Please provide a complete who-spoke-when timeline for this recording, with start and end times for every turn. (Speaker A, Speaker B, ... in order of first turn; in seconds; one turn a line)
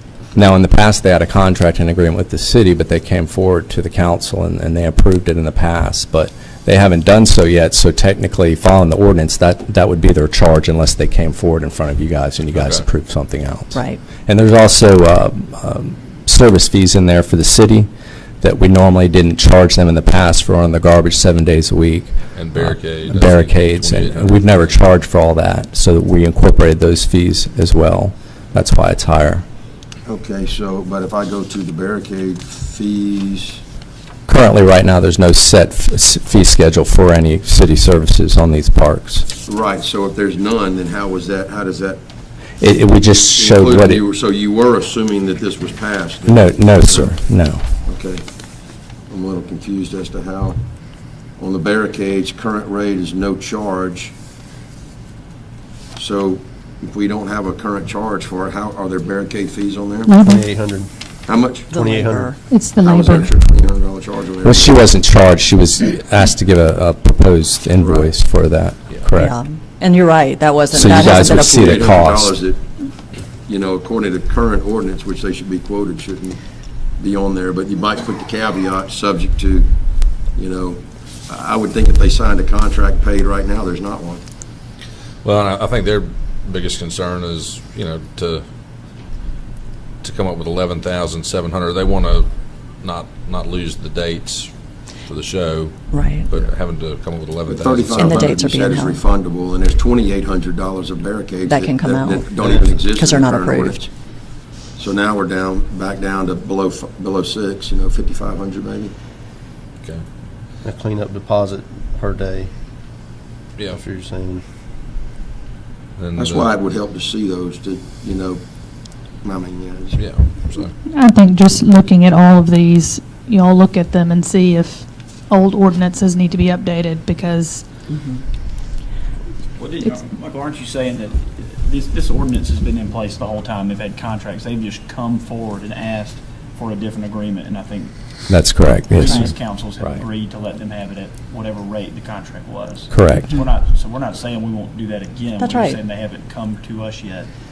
Speaker A: 0.3-17.9
Speaker B: 12.5-12.8
Speaker C: 13.7-14.0
Speaker A: 18.4-29.4
Speaker B: 22.3-24.8
Speaker D: 30.1-33.6
Speaker A: 34.3-39.3
Speaker D: 39.5-42.0
Speaker A: 42.6-44.0
Speaker D: 43.4-47.1
Speaker A: 46.2-47.6
Speaker D: 47.9-48.2
Speaker D: 49.1-50.6
Speaker D: 51.4-54.1
Speaker D: 56.0-60.1
Speaker E: 60.2-60.9
Speaker D: 61.3-61.7
Speaker C: 61.7-62.4
Speaker E: 61.7-62.4
Speaker D: 62.8-64.8
Speaker A: 64.4-69.3
Speaker D: 67.8-68.1
Speaker C: 69.1-71.8
Speaker A: 70.7-72.3
Speaker D: 70.7-72.6
Speaker D: 73.5-76.4
Speaker D: 77.0-79.7
Speaker D: 80.3-84.2
Speaker B: 85.2-88.5
Speaker B: 90.0-98.1
Speaker C: 95.9-96.3
Speaker D: 97.5-103.9
Speaker C: 97.9-99.0
Speaker C: 101.5-102.3
Speaker E: 102.4-102.8
Speaker C: 102.9-103.8
Speaker D: 104.8-108.9
Speaker E: 110.6-112.5
Speaker E: 113.7-114.4
Speaker B: 116.0-116.5
Speaker D: 116.2-118.4
Speaker D: 119.2-120.0
Speaker B: 120.0-120.7
Speaker F: 121.0-124.7
Speaker F: 125.3-127.6
Speaker C: 127.9-128.2
Speaker G: 129.6-137.9
Speaker A: 138.3-140.0
Speaker G: 138.9-147.3
Speaker A: 142.9-143.3
Speaker C: 145.4-145.8